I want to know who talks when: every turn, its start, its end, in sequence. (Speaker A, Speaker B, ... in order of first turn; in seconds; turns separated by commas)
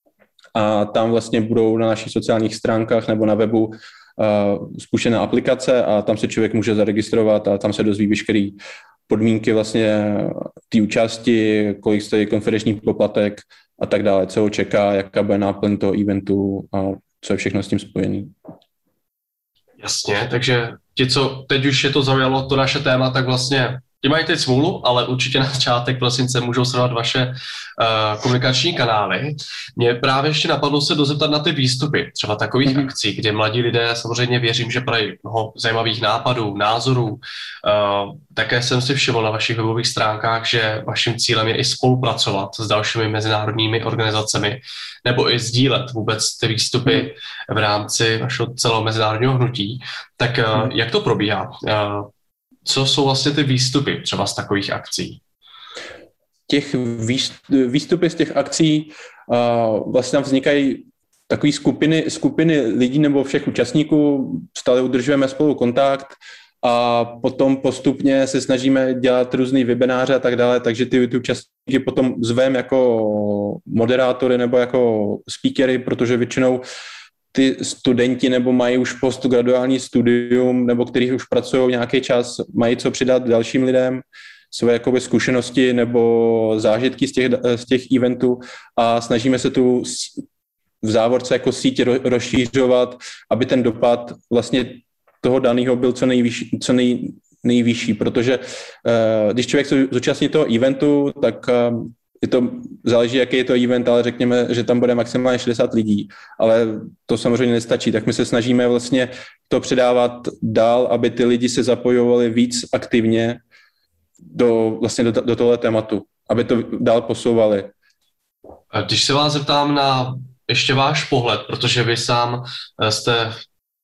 Speaker A: 0.6-8.6, Speaker A: 9.1-18.3, Speaker B: 19.8-52.1, Speaker A: 32.6-32.9, Speaker B: 52.6-55.2, Speaker A: 56.5-76.6, Speaker A: 77.3-90.2, Speaker A: 90.8-113.4, Speaker A: 114.3-117.7, Speaker B: 118.7-123.4